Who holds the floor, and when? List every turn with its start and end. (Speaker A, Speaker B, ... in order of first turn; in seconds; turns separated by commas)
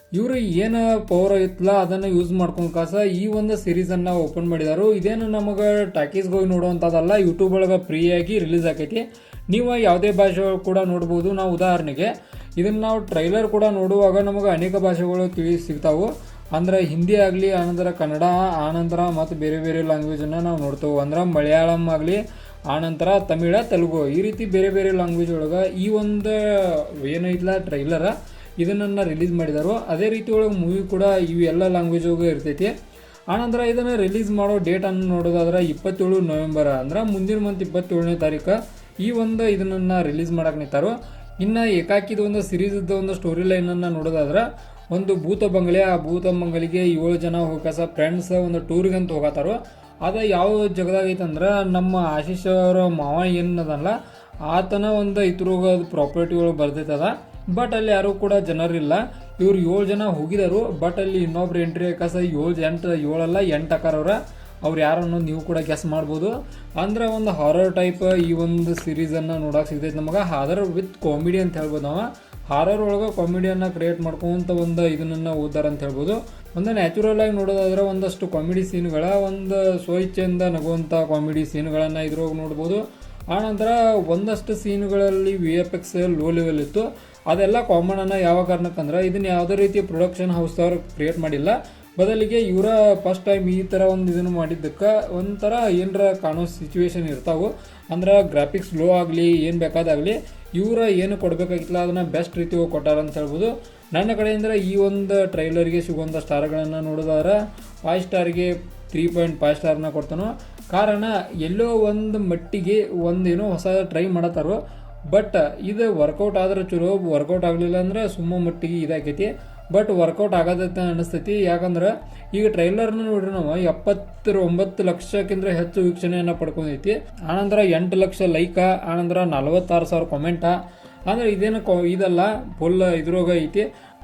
Speaker A: 0.1-32.7, Speaker A: 33.3-54.0, Speaker A: 54.5-114.6, Speaker A: 115.1-133.7